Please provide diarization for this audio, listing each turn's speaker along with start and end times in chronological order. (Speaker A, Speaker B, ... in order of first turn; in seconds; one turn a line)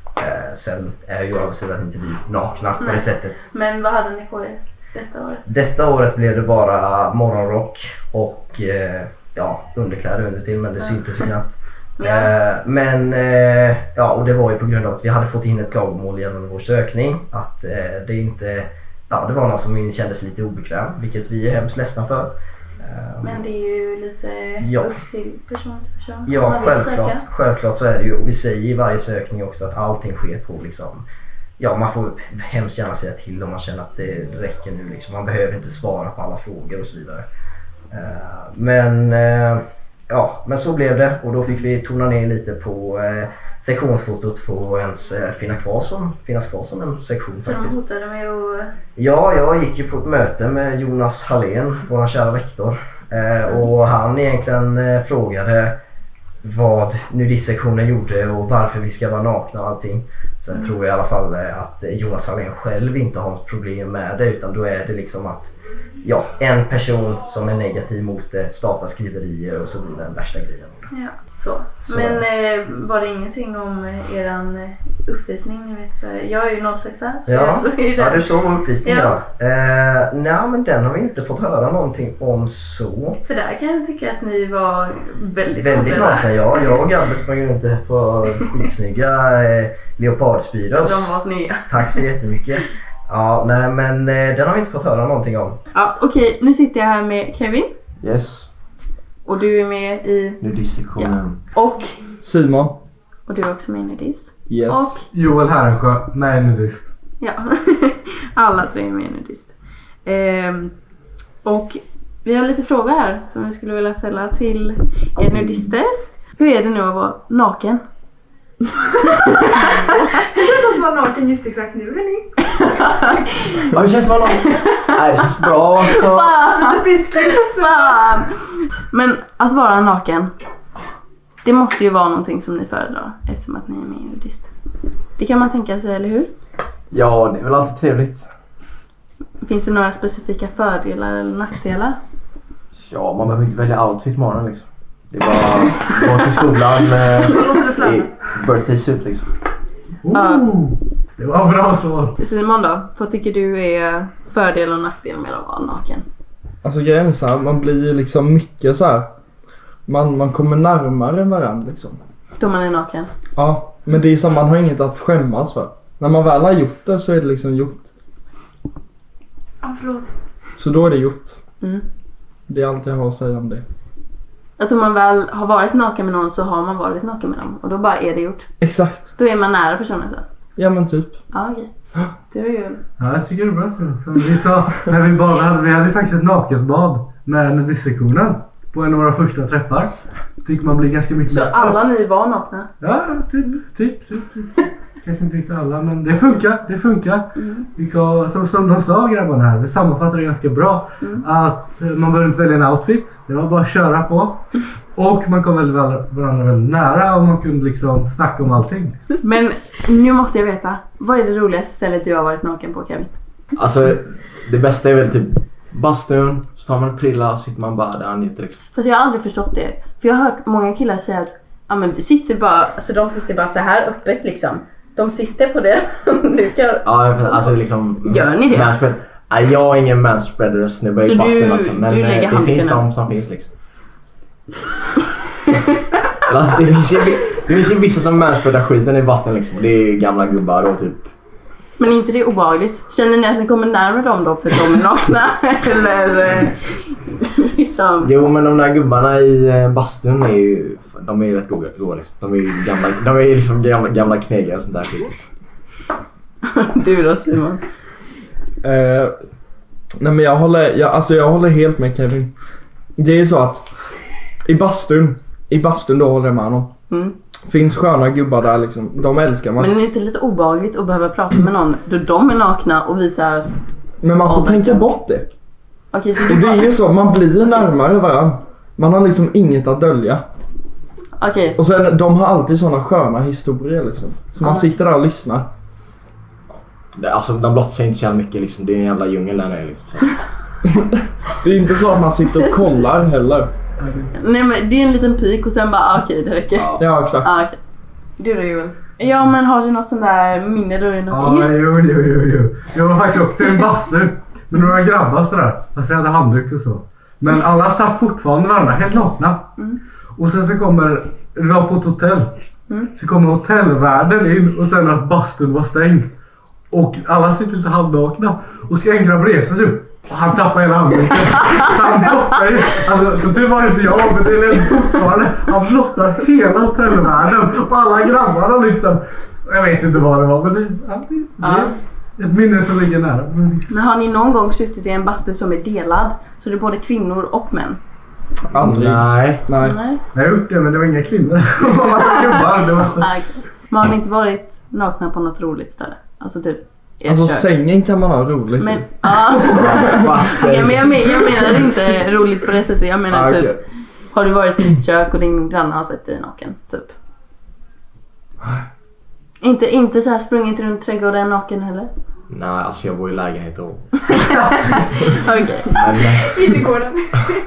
Speaker A: 0.2-3.4
Speaker B: 2.8-5.5
Speaker A: 5.5-23.4
Speaker B: 12.0-12.3
Speaker B: 23.2-27.2
Speaker A: 24.6-24.9
Speaker A: 26.3-31.0
Speaker A: 31.6-37.2
Speaker A: 37.9-47.8
Speaker B: 47.4-48.7
Speaker A: 49.0-55.8
Speaker A: 56.4-70.9
Speaker B: 70.9-78.3
Speaker A: 71.9-72.2
Speaker A: 77.2-83.2
Speaker B: 78.8-79.2
Speaker B: 83.2-86.7
Speaker A: 85.5-95.6
Speaker B: 90.8-92.0
Speaker B: 95.7-97.7
Speaker C: 98.0-98.5
Speaker B: 99.2-100.4
Speaker C: 100.4-101.4
Speaker B: 101.0-102.0
Speaker D: 102.2-102.8
Speaker B: 103.3-105.0
Speaker D: 104.5-104.9
Speaker E: 105.1-106.8
Speaker B: 107.2-109.5
Speaker B: 110.0-110.7
Speaker B: 111.4-117.8
Speaker B: 119.1-119.8
Speaker F: 120.2-122.3
Speaker B: 122.5-123.7
Speaker C: 123.7-126.3
Speaker B: 124.3-124.9
Speaker B: 125.8-128.3
Speaker F: 126.6-127.7
Speaker B: 128.9-130.3
Speaker B: 131.4-134.5
Speaker B: 135.2-136.3
Speaker C: 136.9-138.3
Speaker B: 139.4-142.0
Speaker C: 142.8-149.2
Speaker E: 150.0-152.1
Speaker B: 150.1-150.5
Speaker B: 152.2-156.1
Speaker D: 156.6-159.1
Speaker D: 159.9-162.0
Speaker B: 162.4-163.1
Speaker D: 163.3-167.9
Speaker D: 170.6-171.4
Speaker D: 172.5-173.6
Speaker B: 174.6-178.5
Speaker D: 178.6-179.1
Speaker B: 179.2-180.2
Speaker D: 180.6-181.2
Speaker B: 181.3-181.7
Speaker B: 182.3-182.8
Speaker E: 183.0-191.8
Speaker B: 191.3-192.7
Speaker E: 192.8-204.4
Speaker B: 197.3-197.7
Speaker B: 201.0-201.2
Speaker E: 204.9-209.0
Speaker B: 209.2-213.1
Speaker C: 213.6-218.6
Speaker B: 218.7-228.8
Speaker C: 226.8-233.5
Speaker B: 231.0-232.8
Speaker C: 236.2-241.1
Speaker B: 241.8-248.1
Speaker C: 248.0-255.3
Speaker B: 256.4-257.6
Speaker D: 258.6-259.1
Speaker D: 260.0-262.3
Speaker D: 263.0-263.7
Speaker D: 264.4-266.7
Speaker B: 266.9-267.1
Speaker D: 267.4-269.7
Speaker B: 269.6-273.5
Speaker D: 274.0-275.3
Speaker B: 274.2-274.9
Speaker B: 275.9-276.7
Speaker D: 276.2-280.2
Speaker B: 281.2-281.6
Speaker D: 281.6-285.5
Speaker B: 284.4-284.7
Speaker C: 286.9-290.2
Speaker D: 290.7-293.5
Speaker B: 294.1-297.6
Speaker C: 296.6-296.8
Speaker D: 296.8-297.3
Speaker B: 298.2-301.6
Speaker E: 301.1-309.5
Speaker E: 310.2-312.3
Speaker E: 312.9-316.1
Speaker E: 316.7-333.6
Speaker B: 331.4-331.7
Speaker B: 333.7-337.8
Speaker D: 338.5-339.8
Speaker C: 338.5-339.4
Speaker B: 339.6-340.0
Speaker E: 340.1-343.1
Speaker B: 343.0-347.5
Speaker D: 347.0-348.9
Speaker B: 348.6-353.6
Speaker C: 349.4-351.1
Speaker D: 349.7-350.1
Speaker D: 353.1-353.6
Speaker B: 354.1-356.9
Speaker B: 359.4-361.9
Speaker C: 362.3-364.3
Speaker B: 364.7-365.8
Speaker C: 365.6-366.6